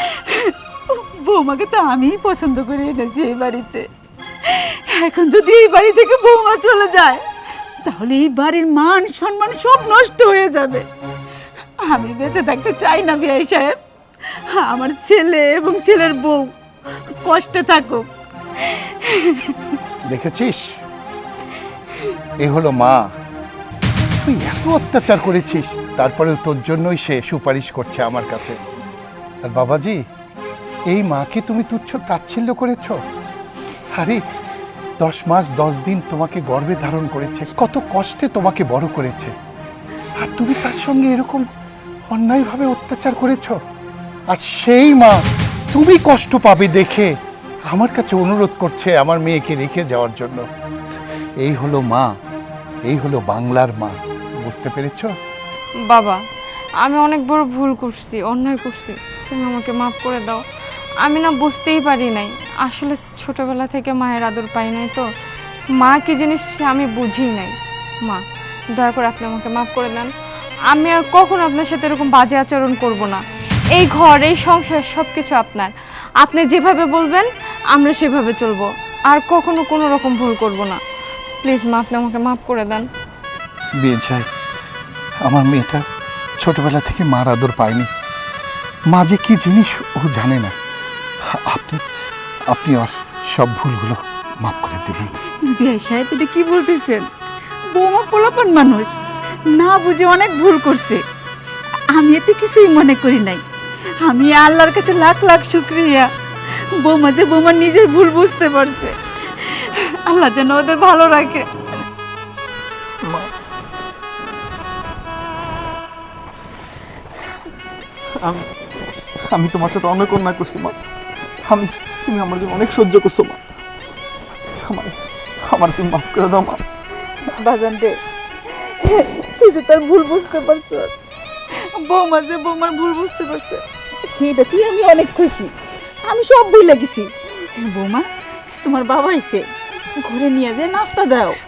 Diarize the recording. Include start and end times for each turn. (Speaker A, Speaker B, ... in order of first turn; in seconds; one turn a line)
Speaker A: 0.4-3.8
Speaker A: 4.5-7.2
Speaker A: 7.8-10.8
Speaker A: 11.8-13.7
Speaker A: 14.5-16.5
Speaker A: 17.2-18.0
Speaker A: 18.6-19.5
Speaker B: 20.1-20.6
Speaker B: 22.4-23.0
Speaker B: 24.2-28.6
Speaker B: 29.4-30.0
Speaker B: 30.9-33.0
Speaker B: 33.9-34.2
Speaker B: 35.0-39.3
Speaker B: 40.1-41.5
Speaker B: 42.1-43.6
Speaker B: 44.3-47.1
Speaker B: 47.7-50.4
Speaker B: 51.4-52.1
Speaker B: 52.9-55.1
Speaker C: 55.9-56.2
Speaker C: 56.8-60.4
Speaker C: 61.0-65.0
Speaker C: 65.8-67.5
Speaker C: 68.7-70.1
Speaker C: 70.7-73.2
Speaker C: 73.7-80.8
Speaker C: 81.4-82.9
Speaker B: 83.8-84.2
Speaker B: 85.2-85.8
Speaker B: 86.4-87.9
Speaker B: 88.9-90.5
Speaker B: 91.3-91.8
Speaker B: 92.5-95.2
Speaker A: 95.5-97.0
Speaker A: 97.7-98.9
Speaker A: 99.5-101.0
Speaker A: 101.9-103.4
Speaker A: 104.0-106.1
Speaker A: 106.8-111.4
Speaker D: 113.0-113.3
Speaker D: 118.1-118.4
Speaker D: 119.3-120.8
Speaker D: 121.4-123.4
Speaker D: 124.6-124.9
Speaker D: 125.5-126.6
Speaker A: 127.3-128.0
Speaker A: 128.5-130.9
Speaker A: 131.9-135.5
Speaker A: 136.0-138.1
Speaker A: 138.6-139.4
Speaker A: 140.0-141.4